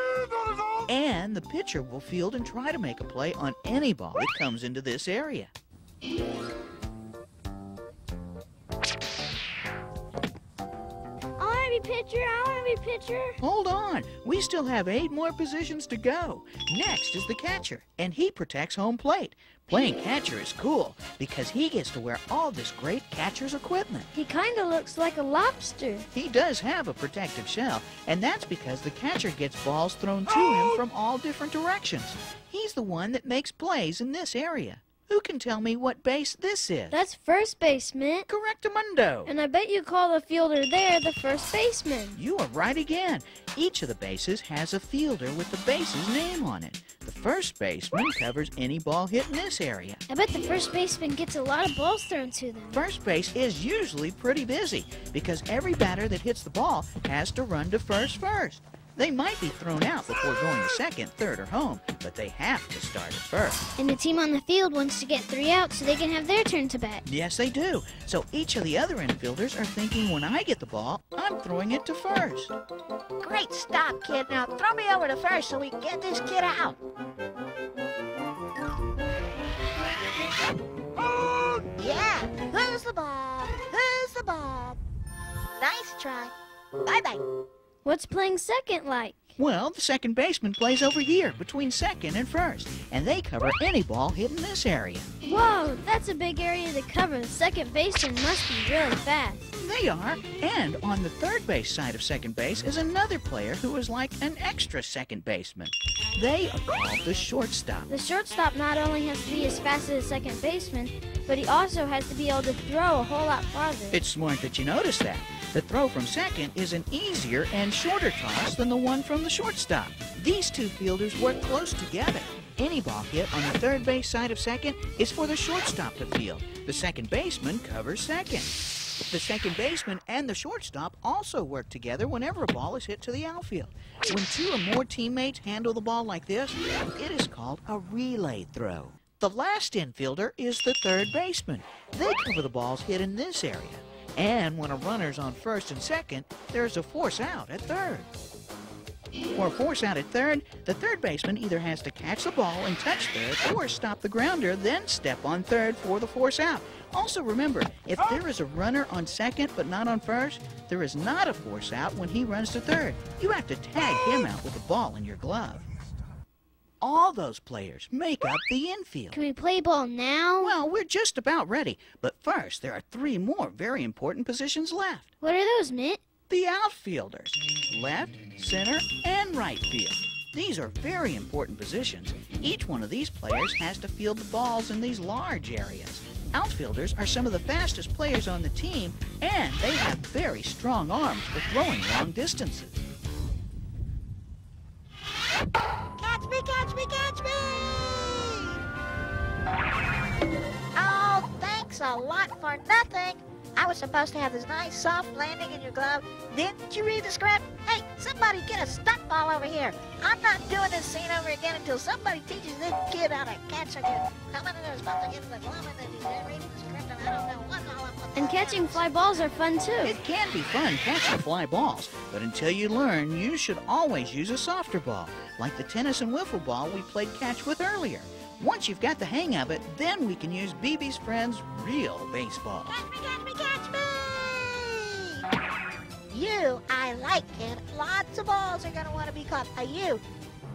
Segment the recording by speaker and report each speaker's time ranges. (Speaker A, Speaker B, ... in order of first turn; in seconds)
Speaker A: 0.8-5.5, 13.4-24.1, 26.1-37.0, 38.3-39.3, 42.1-50.0, 52.7-63.6, 67.0-72.5, 89.3-95.1, 99.6-107.9, 113.9-128.6, 129.1-148.1, 149.3-165.6, 166.8-169.2, 170.4-175.1, 176.3-192.8, 219.8-232.8
Speaker B: 11.4-13.4, 24.1-26.1, 36.9-38.3, 39.2-42.2, 50.1-52.8, 63.8-67.0, 87.8-89.3, 95.2-99.5, 107.9-114.0, 169.1-170.6, 175.2-176.0, 218.1-220.0
Speaker C: 73.2-76.8, 81.8-84.8, 85.5-87.2, 196.0-198.6, 200.7-218.9, 232.7-235.3, 236.1-240.0